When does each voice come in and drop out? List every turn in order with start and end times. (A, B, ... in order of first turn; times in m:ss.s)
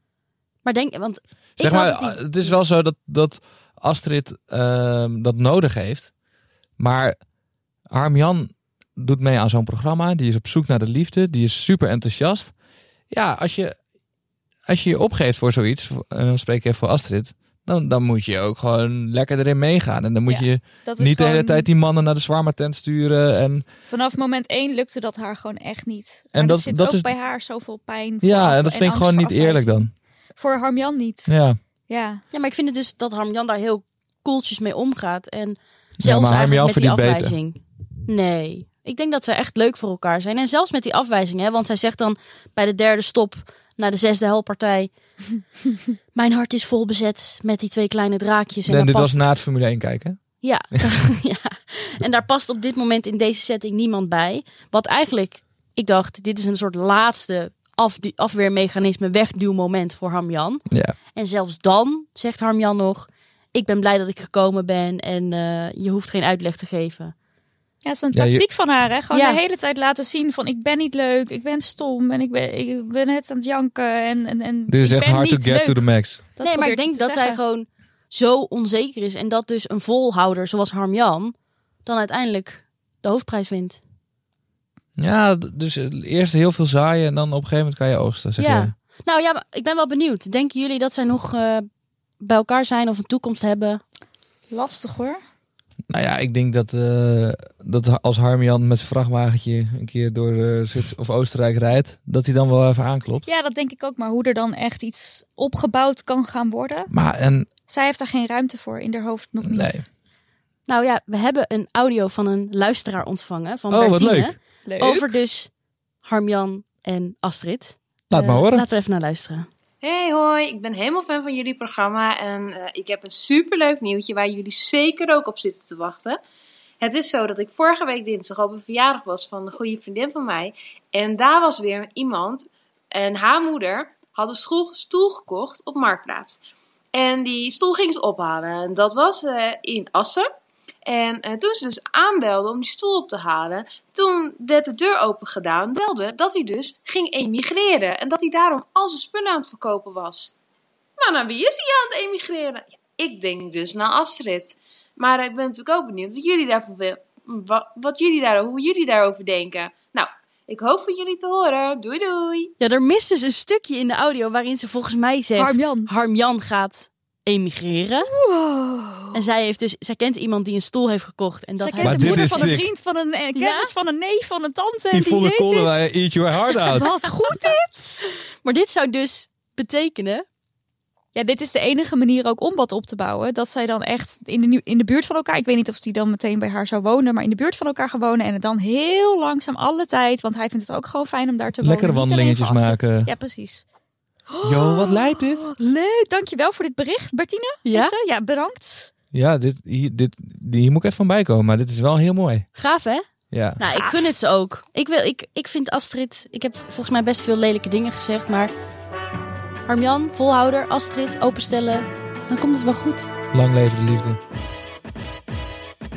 0:00.6-0:02.5 A
0:01.6-0:06.1 B
0:06.8-0:07.2 B
0:07.9-0:12.5 B
0:13.1-0:13.7 B
0:14.6-0:23.6 B
0:20.3-0:21.7 C
0:23.9-0:29.8 C
0:26.3-0:27.1 B
0:28.2-0:29.9 B
0:30.4-0:31.3 C
0:31.3-0:31.6 B
0:31.9-0:32.2 C
0:32.3-0:44.9 A
0:36.0-0:37.4 B
0:46.1-0:49.3 A
0:48.7-0:50.2 B
0:50.4-1:07.1 A
1:00.7-1:01.0 B
1:07.8-1:17.4 C
1:08.1-1:08.4 B
1:09.1-1:09.4 A
1:14.7-1:16.2 B
1:16.4-1:21.3 A
1:21.8-1:23.8 A
1:25.0-1:28.7 B
1:28.4-1:31.6 A
1:32.2-1:33.8 A
1:34.5-1:35.2 C
1:35.9-1:43.2 B
1:43.2-1:46.9 C
1:46.9-1:47.5 B
1:47.7-1:49.8 C
1:49.4-1:49.8 B
1:50.7-1:55.5 A
1:53.7-1:54.3 B
1:54.6-1:55.2 C
1:56.0-1:59.5 A
1:58.1-1:58.6 B
1:59.8-2:06.2 D
2:06.8-2:16.4 D
2:16.9-2:20.3 D
2:20.8-2:30.3 D
2:31.0-2:42.5 D
2:42.6-2:48.1 A
2:45.4-2:45.9 C
2:48.1-2:49.2 C
2:49.1-2:52.5 A
2:51.6-2:55.9 C
2:51.8-2:52.6 B
2:53.3-2:53.7 A
2:54.9-2:56.9 B
2:56.6-2:58.1 C
2:57.3-2:57.5 A
2:58.4-3:00.2 A
3:01.1-3:13.6 C
3:11.6-3:13.1 B
3:14.3-3:18.9 C
3:14.4-3:15.5 B
3:17.6-3:17.9 A
3:19.1-3:22.5 B
3:22.6-3:23.0 A
3:23.3-3:23.6 B
3:23.6-3:28.5 A
3:23.7-3:24.1 C
3:29.7-3:33.1 A
3:33.3-3:34.2 B